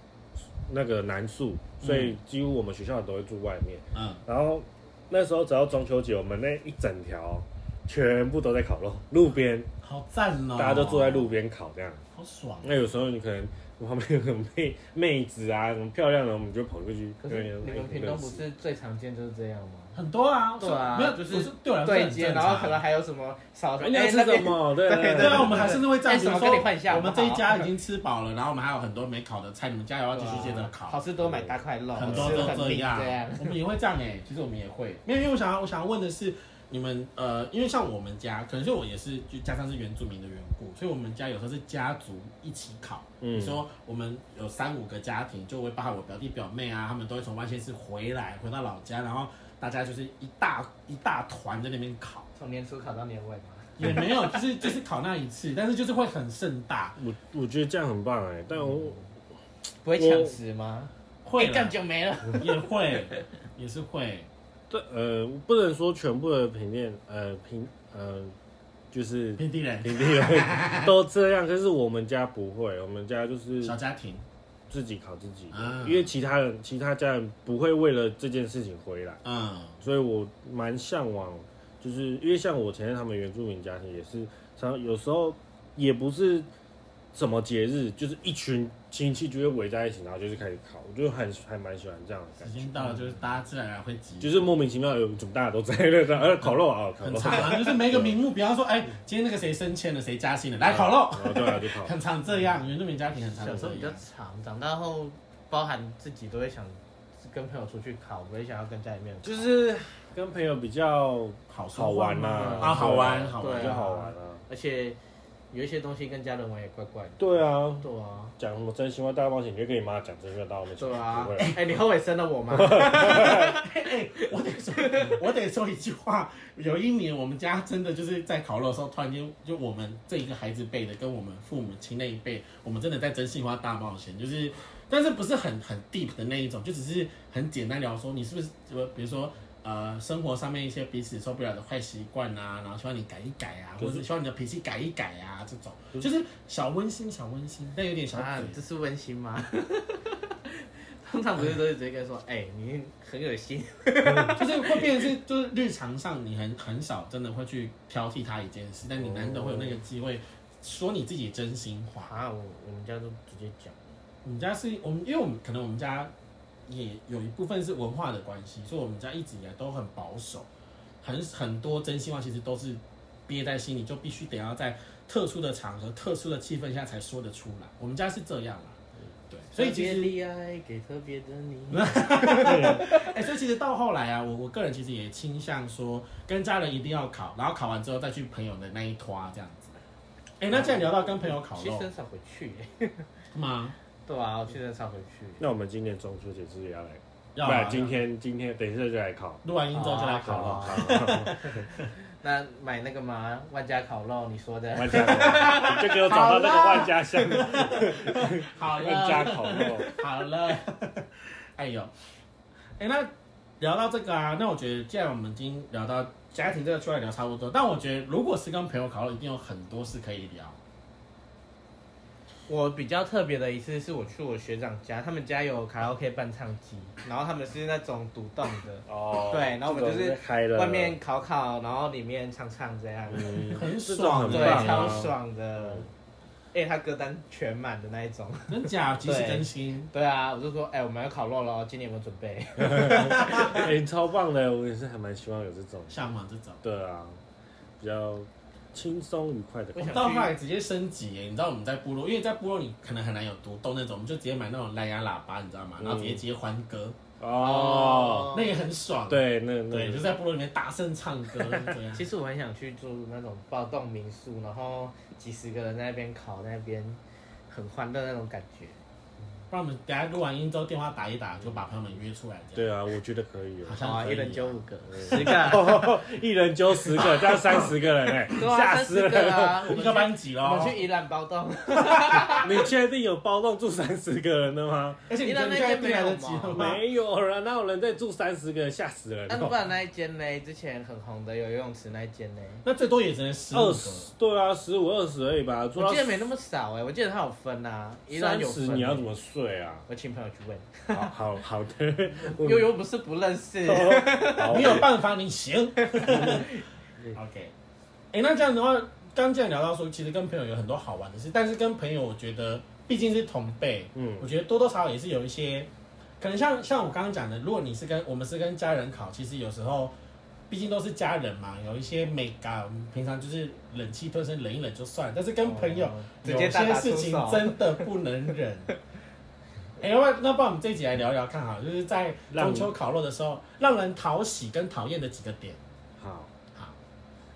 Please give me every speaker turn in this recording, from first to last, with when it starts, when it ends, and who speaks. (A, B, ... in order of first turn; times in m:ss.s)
0:00.7-0:09.7 A
0:01.8-0:02.2 B
0:03.9-0:04.2 B
0:09.8-0:11.4 B
0:10.6-0:12.0 A
0:12.1-0:12.9 B
0:12.6-0:18.4 A
0:17.2-0:20.0 C
0:19.9-0:22.8 B
0:20.6-0:27.7 C
0:23.8-0:25.8 A
0:25.2-0:31.0 B
0:30.1-0:33.6 C
0:31.2-0:31.5 A
0:31.9-0:52.3 B
0:32.0-0:32.6 A
0:43.2-0:43.6 A
0:52.4-0:54.4 C
0:53.8-0:57.0 B
0:57.0-0:59.1 A
0:59.8-1:03.2 C
1:00.0-1:00.3 A
1:01.2-1:01.8 B
1:02.4-1:04.3 B
1:04.7-1:08.3 A
1:08.9-1:13.8 A
1:09.4-1:10.9 B
1:13.6-1:14.2 B
1:14.7-1:19.2 A
1:15.5-1:16.1 B
1:19.2-1:19.8 B
1:19.8-1:26.5 A
1:27.1-1:32.7 A
1:32.4-1:34.4 B
1:34.2-1:38.2 A
1:36.4-1:44.0 B
1:40.6-1:41.9 A
1:43.2-1:49.5 C
1:49.2-1:54.4 A
1:51.5-1:53.9 B
1:52.4-1:55.0 C
1:55.5-1:57.2 C
1:57.2-2:01.6 A
1:57.8-1:58.3 C
2:00.8-2:05.2 C
2:02.5-2:03.6 A
2:03.0-2:28.6 B
2:23.8-2:24.0 A
2:28.1-2:35.1 C
2:34.4-2:42.1 B
2:39.0-2:39.8 A
2:42.0-2:43.9 C
2:44.2-2:46.1 B
2:46.7-2:50.5 B
2:51.0-2:58.8 B
2:59.3-3:00.1 B
2:59.5-3:03.1 C
3:01.7-3:09.8 B
3:02.3-3:02.9 A
3:10.4-3:11.8 B
3:11.2-3:13.1 C
3:13.3-3:13.8 B
3:14.0-3:15.4 C
3:15.4-3:19.4 A
3:17.4-3:18.0 B
3:19.4-3:21.8 B
3:19.7-3:21.7 C
3:20.2-3:21.4 A
3:22.2-3:26.5 C
3:24.8-3:30.0 A
3:25.9-3:31.9 B
3:32.8-3:40.6 B
3:42.5-3:53.6 C
3:48.9-3:51.0 A
3:53.1-3:55.8 A
3:53.5-3:55.1 B
3:54.3-3:55.9 C
3:56.5-4:03.7 C
3:58.5-3:59.9 B
4:02.6-4:06.0 A
4:05.9-4:06.6 B
4:06.6-4:07.2 A
4:07.8-4:10.1 A
4:09.7-4:10.3 C
4:09.8-4:17.0 B
4:15.8-4:16.2 A
4:17.2-4:18.4 A
4:17.4-4:18.5 C
4:18.3-4:22.0 B
4:19.1-4:20.2 A
4:21.4-4:21.7 A
4:21.9-4:28.8 C
4:29.5-4:32.6 B
4:32.5-4:33.8 A
4:33.6-4:35.8 B
4:33.8-4:35.8 C
4:34.9-4:39.7 A
4:36.9-4:37.7 B
4:38.3-4:42.6 C
4:39.7-4:40.8 B
4:41.9-4:42.2 B
4:42.4-4:45.1 A
4:45.1-4:46.8 B
4:45.2-4:46.7 C
4:46.5-4:49.6 A
4:49.3-4:52.6 C
4:52.6-4:54.1 B
4:53.5-4:56.3 A
4:55.8-4:59.1 C
4:58.1-4:59.8 A
4:59.9-5:01.1 C
5:00.9-5:02.7 A
5:02.2-5:04.8 C
5:03.6-5:04.9 A
5:04.4-5:06.5 B
5:05.8-5:06.6 C
5:06.1-5:06.5 A
5:07.1-5:07.5 B
5:08.1-5:19.9 B
5:13.9-5:14.3 A
5:20.5-5:28.7 B
5:25.4-5:27.8 C
5:29.8-5:35.6 B
5:32.3-5:32.7 A
5:36.0-5:36.3 A